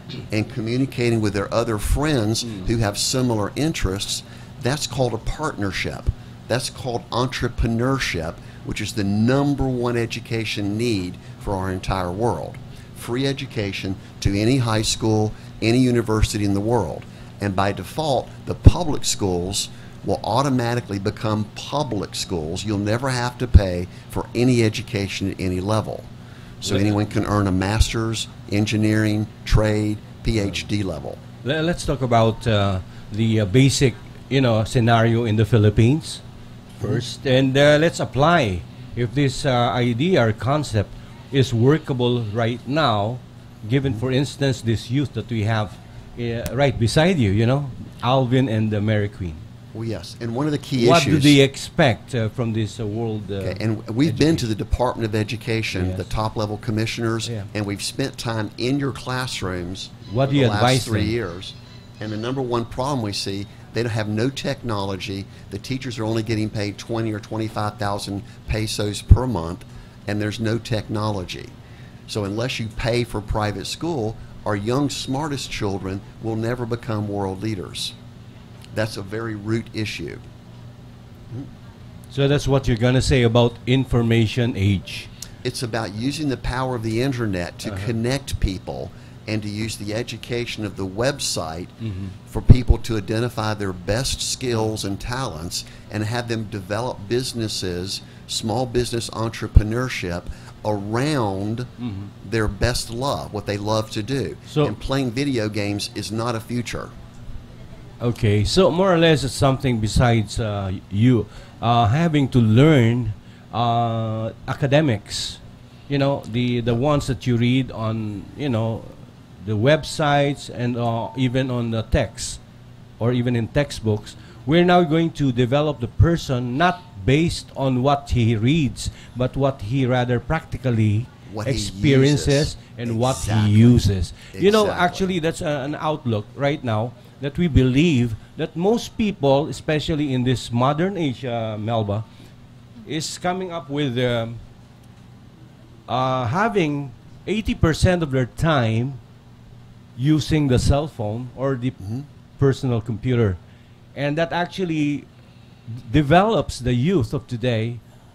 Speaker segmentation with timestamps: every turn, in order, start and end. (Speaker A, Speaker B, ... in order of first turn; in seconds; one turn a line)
Speaker A: 0.3-26.1
Speaker A: 26.6-31.2
Speaker B: 26.6-27.0
Speaker B: 31.4-36.2
Speaker B: 36.8-49.4
Speaker A: 49.7-51.4
Speaker B: 50.8-54.5
Speaker A: 53.4-71.5
Speaker B: 55.7-56.1
Speaker B: 57.2-57.5
Speaker B: 60.1-61.2
Speaker A: 72.1-78.0
Speaker A: 78.7-80.3
Speaker B: 82.1-85.1
Speaker A: 85.4-91.8
Speaker B: 87.7-87.9
Speaker B: 91.8-92.1
Speaker A: 92.3-101.7
Speaker B: 101.8-102.1
Speaker A: 102.2-107.0
Speaker B: 104.5-104.8
Speaker B: 108.0-122.4
Speaker B: 123.0-142.1
Speaker A: 131.3-135.2
Speaker B: 142.8-144.4
Speaker B: 145.9-149.0
Speaker B: 150.0-151.8
Speaker A: 151.8-152.1
Speaker B: 152.4-153.4
Speaker B: 153.9-155.1
Speaker B: 155.7-157.8